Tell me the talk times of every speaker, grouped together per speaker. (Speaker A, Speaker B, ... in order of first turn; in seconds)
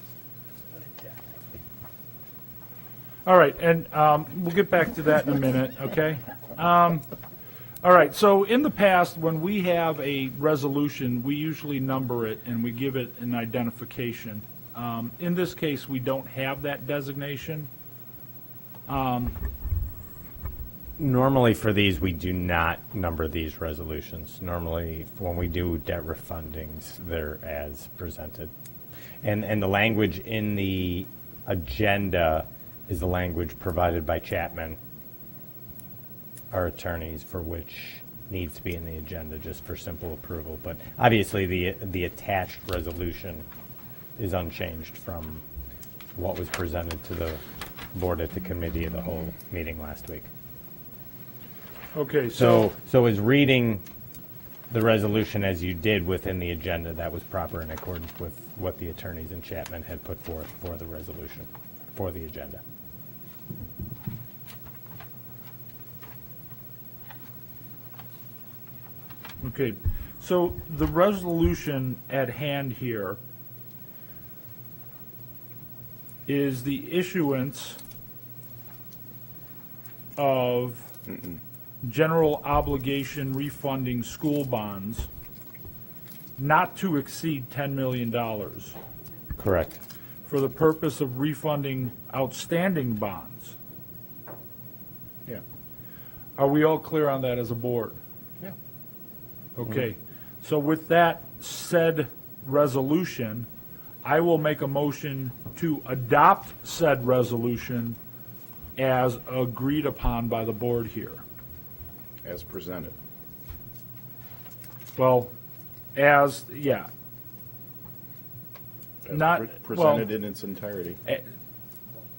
Speaker A: 3.3-7.1, 7.8-17.7, 18.9-19.4, 51.9-52.7, 69.4-73.2, 76.3-77.8, 80.2-80.9, 81.8-85.1, 86.4-88.8, 90.3-93.5, 96.4-98.0, 99.6-103.5, 104.0-108.0, 108.8-111.2, 115.0-115.3, 116.0-116.9, 119.1-120.1
Speaker B: 21.0-28.5, 29.2-34.8, 36.5-43.5, 44.2-45.4, 46.2-47.4, 47.9-50.3, 52.3-53.8, 54.7-62.6, 89.4-89.8
Speaker C: 112.2-112.9, 119.1-121.0